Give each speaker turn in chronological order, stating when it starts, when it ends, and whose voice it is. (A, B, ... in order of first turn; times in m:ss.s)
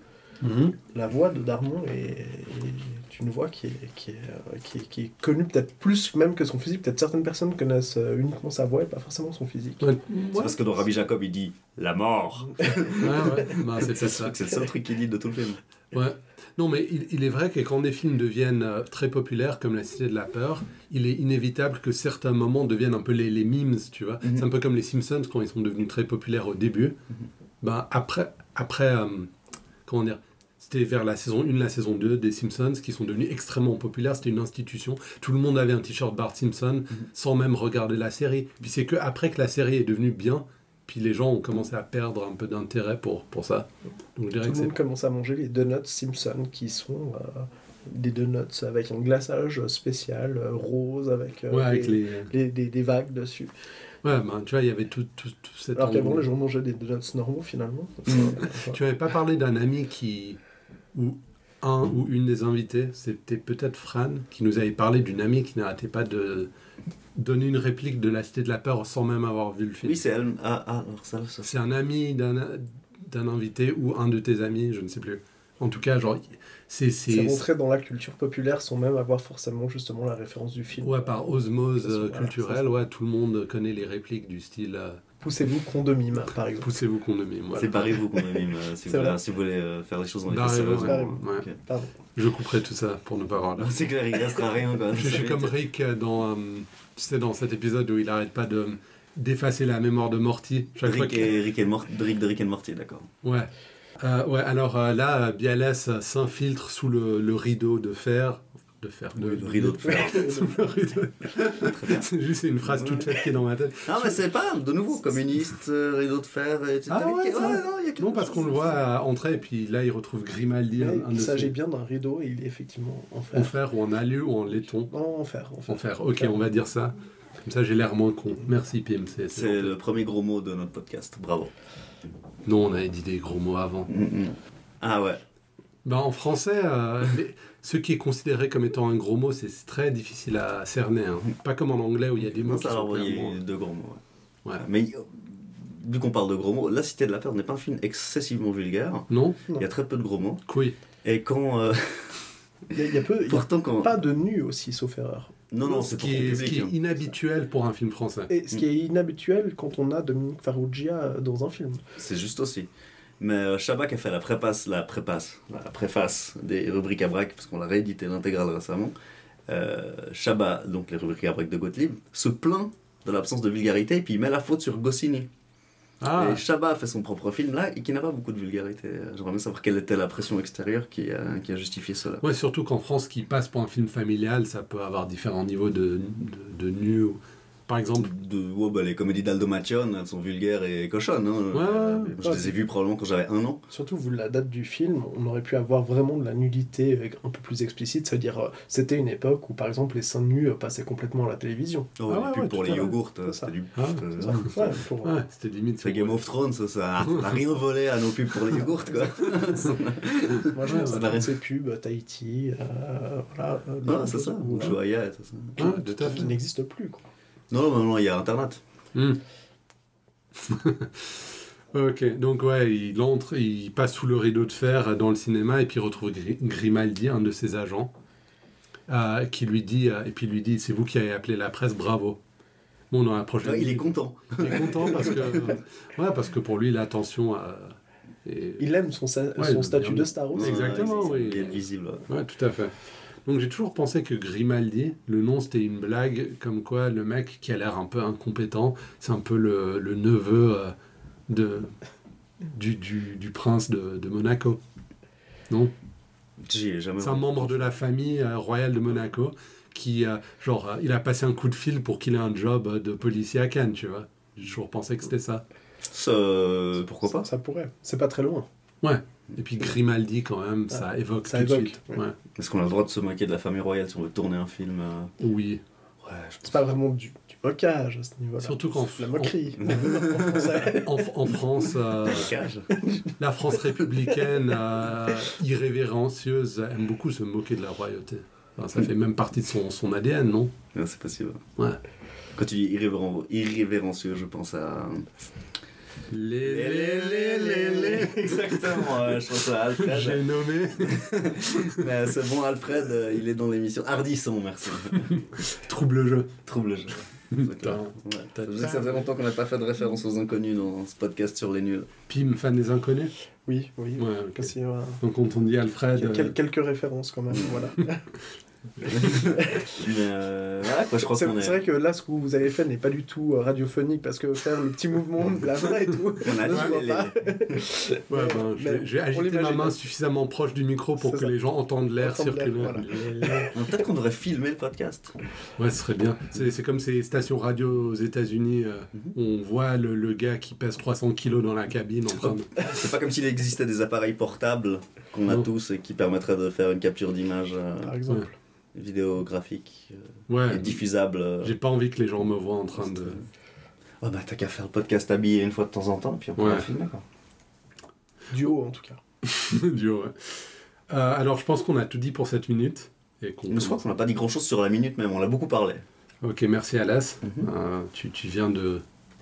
0:00.4-0:00.8 A
0:00.8-0:09.9 B
0:09.8-0:10.6 A
0:10.3-0:15.6 C
0:12.6-0:13.0 B
0:13.0-0:14.4 A
0:15.9-0:27.0 A
0:27.6-0:29.3 A
0:29.8-0:44.7 A
0:44.4-0:53.5 B
0:51.5-0:52.3 A
0:54.0-0:56.2 A
0:55.8-0:58.8 B
0:58.1-0:58.3 C
0:58.4-1:00.4 A
1:00.9-1:06.5 A
1:07.2-1:10.0 A
1:09.8-1:11.5 C
1:11.4-1:17.4 A
1:17.1-1:22.7 B
1:20.8-1:25.0 A
1:25.2-1:26.7 B
1:26.6-1:28.0 A
1:27.5-1:31.6 C
1:28.8-1:29.2 B
1:30.3-1:31.5 A
1:30.6-1:31.9 B
1:32.1-1:33.8 A
1:33.6-1:35.5 C
1:34.9-1:41.3 A
1:40.8-1:43.1 C
1:43.2-1:54.2 A
1:49.2-1:50.4 C
1:49.8-1:50.9 B
1:51.5-1:52.1 C
1:52.6-1:53.2 C
1:53.8-1:58.8 C
1:56.9-2:01.5 A
2:00.8-2:03.6 B
2:03.3-2:04.9 A
2:04.8-2:06.4 B
2:05.7-2:09.7 A
2:09.3-2:11.5 C
2:12.4-2:13.9 A
2:13.9-2:15.2 C
2:15.8-2:23.4 A
2:22.2-2:24.0 C
2:24.6-2:30.4 C
2:29.1-2:29.4 A
2:30.5-2:30.8 A
2:31.0-2:32.3 C
2:32.7-2:35.4 B
2:33.2-2:34.0 C
2:35.5-2:36.9 C
2:35.6-2:38.3 A
2:38.3-2:41.8 B
2:42.0-2:42.7 C
2:43.2-2:48.9 C
2:49.5-2:55.3 C
2:56.0-2:56.4 A
2:56.1-3:02.2 C
3:02.2-3:08.1 A
3:08.0-3:13.6 C
3:11.5-3:12.2 A
3:12.2-3:12.5 B
3:13.7-3:22.0 B
3:22.0-3:24.7 C
3:22.1-3:22.9 A
3:22.6-3:23.5 B
3:23.7-3:24.5 A
3:24.2-3:25.2 B
3:25.0-3:26.3 A
3:25.8-3:31.3 C
3:27.0-3:27.4 A
3:30.5-3:34.8 B
3:30.7-3:31.2 A
3:33.8-3:36.3 C
3:35.6-3:36.3 A
3:35.7-3:37.0 B
3:37.5-3:38.6 C
3:38.9-3:39.2 A
3:40.4-3:47.9 A
3:48.9-3:52.2 A
3:52.9-3:58.6 A
3:53.4-3:55.6 C
3:58.6-4:01.1 B
3:59.4-4:02.7 A
4:00.3-4:02.1 C
4:03.2-4:10.7 A
4:11.3-4:11.7 A
4:12.4-4:14.6 A
4:16.4-4:17.7 C
4:17.0-4:25.4 A
4:25.9-4:27.3 C
4:27.1-4:28.5 B
4:28.8-4:32.2 A
4:30.7-4:32.0 B
4:32.4-4:35.1 C
4:35.2-4:35.6 A
4:36.0-4:36.7 C
4:36.4-4:41.4 B
4:38.4-4:42.3 A
4:39.6-4:40.5 C
4:42.0-4:42.8 C
4:43.2-4:50.5 A
4:50.7-4:51.4 C
4:52.3-4:55.1 C
4:56.1-4:59.1 A
4:56.4-5:00.2 C
4:59.7-5:01.9 A
5:00.8-5:05.1 C
5:04.9-5:06.3 A
5:06.4-5:11.9 C
5:07.3-5:09.1 A
5:12.1-5:13.1 A
5:13.5-5:15.0 B
5:14.0-5:16.3 A
5:15.9-5:18.1 B
5:17.3-5:17.6 C
5:18.8-5:19.2 A
5:18.9-5:19.9 B
5:18.9-5:21.6 C
5:21.0-5:29.8 B
5:26.2-5:27.6 C
5:26.4-5:26.7 A
5:28.1-5:33.5 A
5:31.0-5:31.3 B
5:32.0-5:33.5 B
5:33.5-5:35.2 C
5:35.6-5:42.8 A
5:42.1-5:48.0 C
5:47.8-5:48.3 B
5:48.7-5:51.5 C
5:50.3-5:50.8 A
5:51.4-5:53.2 A
5:52.8-5:53.2 C
5:54.0-5:57.0 C
5:56.4-5:56.7 A
5:58.3-5:59.0 B
5:59.2-6:03.8 A
6:03.5-6:05.8 C
6:06.2-6:08.8 A
6:07.2-6:07.5 C